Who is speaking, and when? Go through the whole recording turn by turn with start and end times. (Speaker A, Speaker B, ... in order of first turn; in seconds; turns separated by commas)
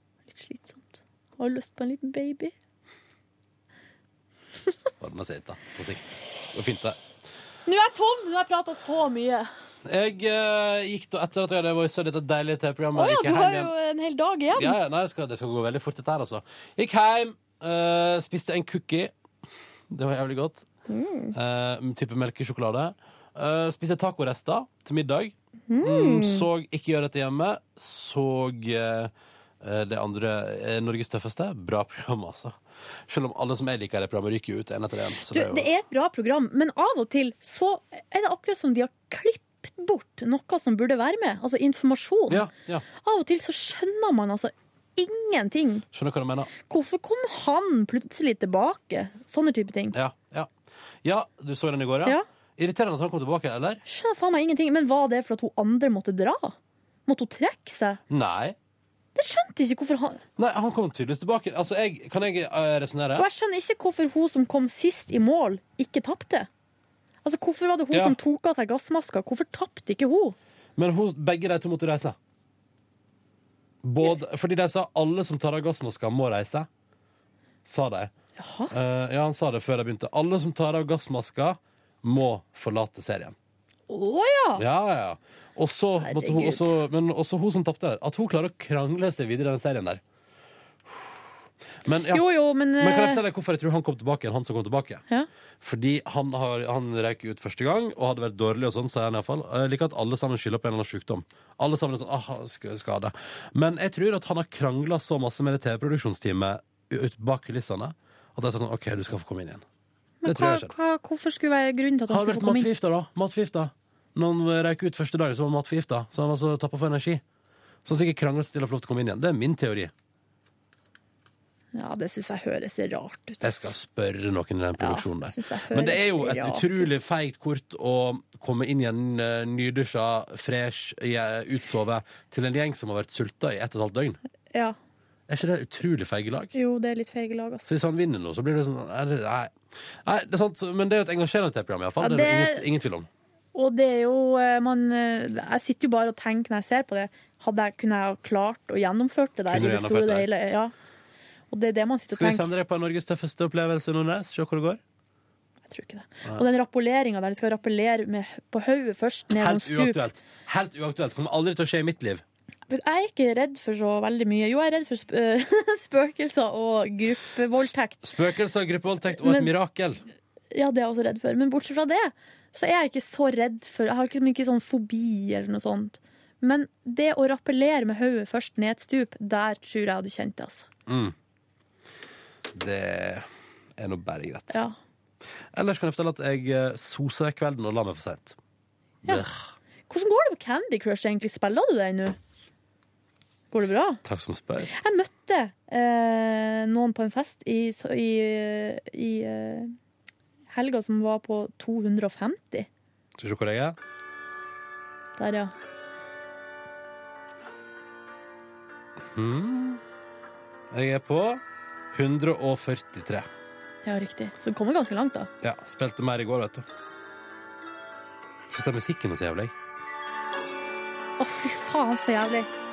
Speaker A: 0.3-2.5, Speaker B: 5.0-7.0, Speaker A: 7.7-9.5, Speaker B: 9.8-13.7, Speaker A: 12.9-14.8, Speaker B: 14.5-19.1, Speaker B: 19.9-20.7, Speaker A: 20.9-21.3, Speaker B: 21.3-35.7, Speaker A: 25.7-26.5, Speaker A: 35.3-42.5, Speaker B: 42.3-42.9, Speaker A: 43.0-45.9, Speaker B: 45.9-46.5, Speaker A: 46.7-50.0, Speaker B: 49.9-50.5, Speaker B: 51.0-53.8, Speaker A: 53.9-56.6, Speaker A: 57.1-58.0, Speaker B: 58.1-58.6, Speaker A: 59.1-60.2, Speaker B: 60.4-63.3, Speaker A: 63.2-66.5, Speaker A: 67.2-70.4, Speaker B: 67.9-68.2, Speaker B: 70.8-72.2, Speaker B: 73.8-76.7, Speaker B: 77.7-78.1, Speaker A: 78.4-78.7, Speaker B: 78.7-83.4, Speaker A: 83.9-84.6, Speaker B: 84.6-90.0, Speaker A: 86.0-86.7, Speaker B: 91.9-92.3, Speaker A: 92.1-93.2, Speaker B: 92.8-95.0, Speaker B: 95.6-109.6, Speaker A: 110.2-112.7, Speaker B: 110.2-110.7, Speaker B: 112.1-117.2, Speaker B: 117.8-119.9, Speaker A: 121.7-123.7, Speaker B: 123.4-134.2, Speaker A: 124.8-127.0, Speaker B: 135.3-136.5, Speaker A: 136.5-137.8, Speaker B: 137.7-143.1, Speaker A: 142.0-142.7, Speaker A: 143.5-150.7, Speaker B: 149.5-150.3, Speaker A: 151.5-152.5, Speaker B: 152.1-154.8, Speaker A: 155.7-160.1, Speaker B: 159.3-162.2, Speaker A: 162.7-168.1, Speaker B: 168.0-170.0, Speaker A: 169.2-169.5, Speaker A: 170.5-180.7, Speaker B: 180.9-181.2, Speaker B: 182.5-184.6, Speaker A: 184.5-184.8, Speaker B: 185.5-188.4, Speaker B: 189.0-189.3, Speaker A: 189.1-189.3, Speaker A: 189.9-192.2, Speaker A: 193.5-194.0, Speaker B: 194.0-194.7, Speaker A: 194.7-199.8, Speaker A: 200.5-202.7, Speaker B: 203.2-203.8, Speaker A: 205.2-205.5, Speaker B: 209.0-209.8, Speaker B: 210.7-211.4, Speaker B: 211.9-213.3, Speaker A: 213.8-215.3, Speaker B: 215.4-216.7, Speaker B: 218.5-219.5, Speaker A: 221.2-222.5